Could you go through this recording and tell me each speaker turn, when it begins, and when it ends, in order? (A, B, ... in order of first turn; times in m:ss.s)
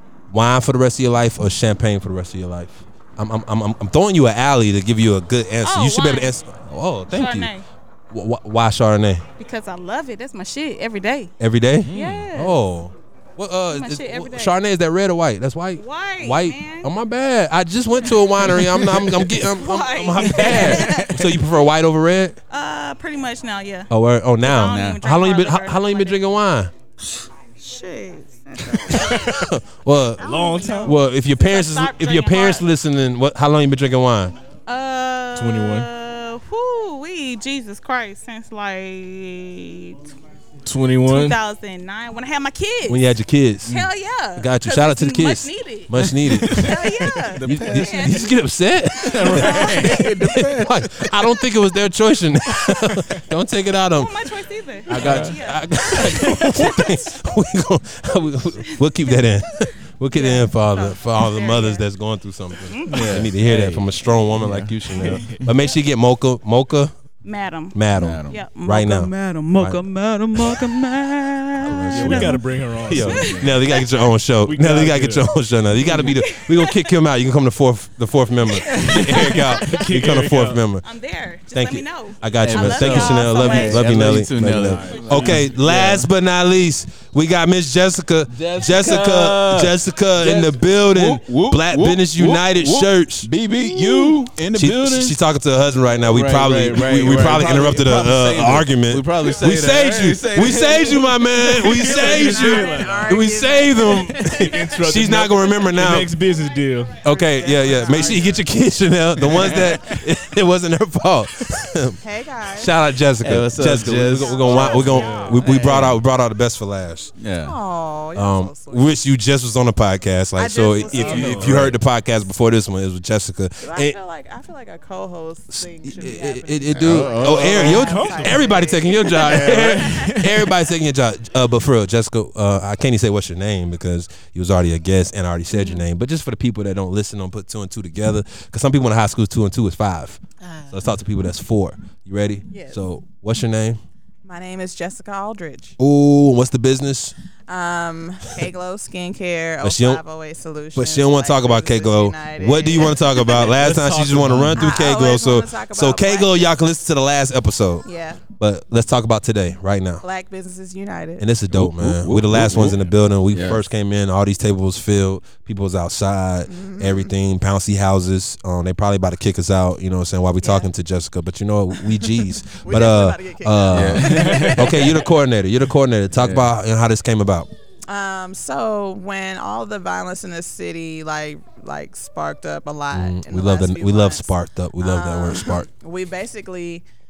0:00.3-0:07.5 A
0:05.6-0:06.3 B
0:07.1-0:07.6 B
0:08.1-0:09.2 A
0:09.4-0:11.3 B
0:11.4-0:22.4 A
0:11.9-0:12.2 C
0:11.9-0:12.6 B
0:13.7-0:14.6 B
0:15.8-0:16.9 B
0:19.4-0:21.5 B
0:20.2-0:21.1 C
0:22.5-0:23.9 B
0:23.9-0:26.7 A
0:24.4-0:26.3 B
0:24.5-0:25.0 C
0:27.6-0:29.3 B
0:28.6-0:34.4 A
0:30.2-0:31.0 D
0:30.2-0:32.7 B
0:34.7-0:40.0 B
0:35.4-0:35.9 D
0:40.7-0:41.4 D
0:41.0-0:43.1 B
0:42.9-0:43.8 A
0:43.7-0:45.9 B
0:44.4-0:46.9 A
0:46.3-0:46.7 C
0:46.5-0:48.2 B
0:47.4-0:48.2 C
0:47.4-0:54.1 A
0:49.1-0:50.1 B
0:49.1-0:50.8 C
0:53.9-0:57.0 B
0:54.9-1:06.9 A
0:55.0-0:55.3 C
0:58.6-0:59.2 B
1:00.1-1:01.9 B
1:02.7-1:03.1 B
1:02.9-1:04.8 C
1:05.0-1:05.4 D
1:07.2-1:12.4 B
1:07.7-1:09.8 A
1:07.9-1:08.4 C
1:10.4-1:10.6 A
1:11.6-1:20.9 A
1:11.8-1:13.6 C
1:11.9-1:13.3 D
1:13.1-1:14.0 B
1:14.4-1:15.3 D
1:16.0-1:17.0 B
1:18.4-1:20.0 B
1:19.6-1:20.6 D
1:20.8-1:23.9 B
1:21.5-1:46.1 A
1:22.5-1:26.1 C
1:24.7-1:25.6 D
1:28.3-1:35.2 C
1:36.1-1:43.0 C
1:41.6-1:43.5 D
1:41.8-1:44.6 E
1:44.3-1:47.0 D
1:47.0-1:48.4 E
1:47.0-1:52.0 A
1:49.2-1:49.7 C
1:52.0-1:52.7 E
1:52.6-1:57.1 A
1:53.2-1:56.0 C
1:54.4-1:55.4 E
1:54.9-1:55.6 D
1:57.2-1:57.6 C
1:57.5-1:59.0 E
1:58.2-2:04.0 A
2:00.4-2:01.5 E
2:00.9-2:01.6 D
2:01.0-2:01.8 C
2:03.6-2:09.8 E
2:05.5-2:23.8 A
2:06.7-2:08.0 C
2:07.7-2:08.6 D
2:09.2-2:09.8 C
2:09.8-2:10.4 D
2:15.6-2:15.8 E
2:22.5-2:22.8 E
2:24.2-2:25.8 E
2:25.8-2:27.2 A
2:27.5-2:33.6 E
2:29.6-2:30.0 A
2:30.8-2:37.9 A
2:33.6-2:34.5 D
2:33.6-2:34.6 C
2:34.5-2:36.5 E
2:37.8-2:38.2 E
2:38.4-2:40.0 A
2:40.0-2:41.3 E
2:41.2-2:57.5 A
2:41.5-2:43.6 C
2:46.5-2:47.1 E
2:50.4-2:50.7 E
2:52.6-2:54.8 E
2:53.7-2:54.9 C
2:56.2-2:56.5 C
2:57.9-3:06.8 E
3:02.9-3:05.7 A